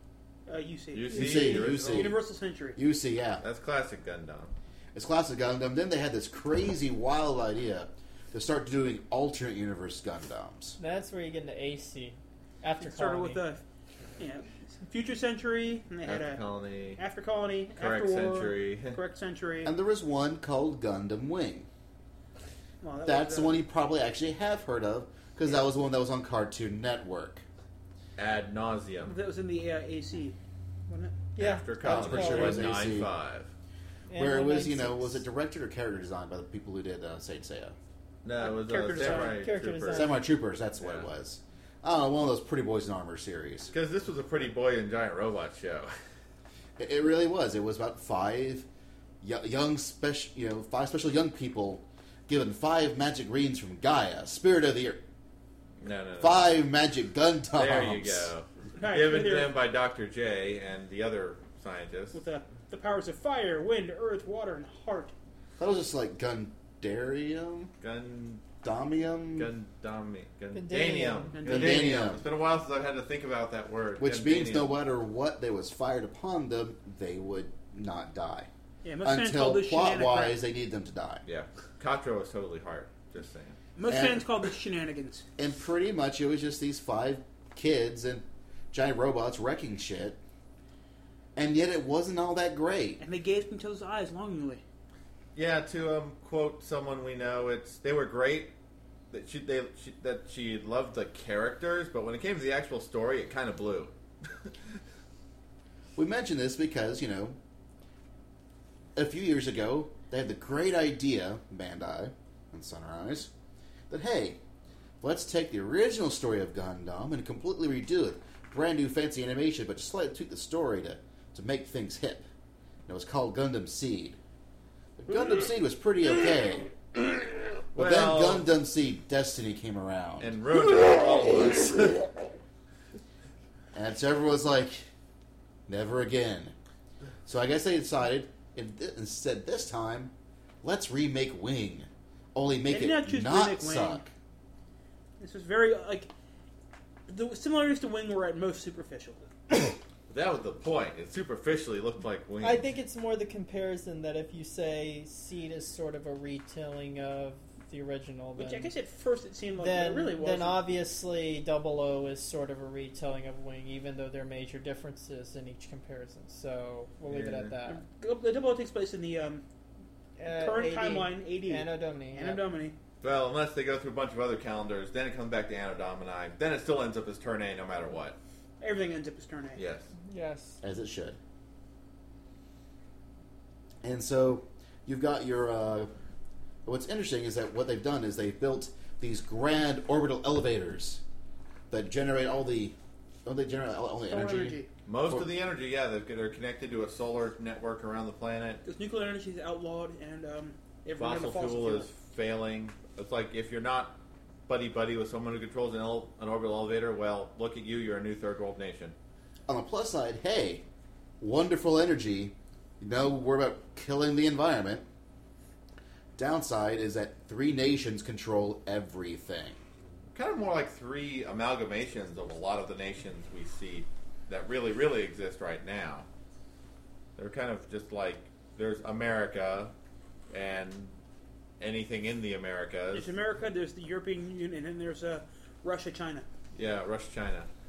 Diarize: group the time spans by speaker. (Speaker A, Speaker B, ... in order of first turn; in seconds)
Speaker A: 0.5-2.8, 12.8-13.6, 14.2-16.4, 16.9-19.7, 22.8-23.6, 29.0-30.4, 30.9-31.2, 38.4-39.4, 58.7-59.5, 62.1-65.1, 71.3-72.0, 78.8-80.4, 83.8-85.2, 93.0-94.6, 142.7-144.0, 145.2-146.1, 147.1-149.3, 158.4-160.6, 167.7-169.4, 170.3-172.7, 178.6-179.6, 194.1-194.7, 198.6-201.9, 232.9-236.2
Speaker B: 0.9-2.2, 3.4-4.5, 16.0-17.0, 17.7-19.0, 28.2-29.1, 31.4-33.5, 38.2-40.1, 40.8-41.1, 43.7-45.9, 55.8-56.6, 57.5-62.2, 67.8-68.4, 69.3-74.8, 81.2-83.6, 95.3-98.5, 99.1-104.5, 127.7-128.5, 130.2-132.1, 150.1-152.7, 167.1-167.6, 173.0-178.2, 179.5-179.9, 194.8-198.6, 200.9-208.9, 220.1-226.1, 227.2-229.7, 230.3-230.9, 231.6-233.1, 236.5-237.5
Speaker C: 1.1-2.2, 2.7-3.4, 4.9-10.8, 19.6-21.7, 23.0-27.4, 31.8-33.1, 34.1-37.8, 39.9-43.7, 46.8-48.6, 49.2-55.0, 56.2-58.3, 65.6-67.7, 68.6-69.5, 71.5-72.2, 74.0-78.5, 79.0-81.2, 83.9-84.2, 85.4-90.2, 91.3-93.0, 106.0-107.4, 109.0-113.3, 113.9-114.4, 115.0-122.2, 122.9-124.2, 125.0-126.7, 127.7-130.3, 133.7-134.8, 135.7-136.5, 137.2-140.1, 140.6-144.1, 180.6-181.2, 183.8-185.9, 186.6-191.0, 191.7-195.3, 209.5-210.6, 211.2-214.8, 216.2-219.6
Speaker D: 10.8-13.4, 31.4-32.8, 34.1-35.2, 39.1-40.2, 70.5-71.4, 152.4-158.7, 159.6-167.8, 170.2-172.4, 180.1-180.6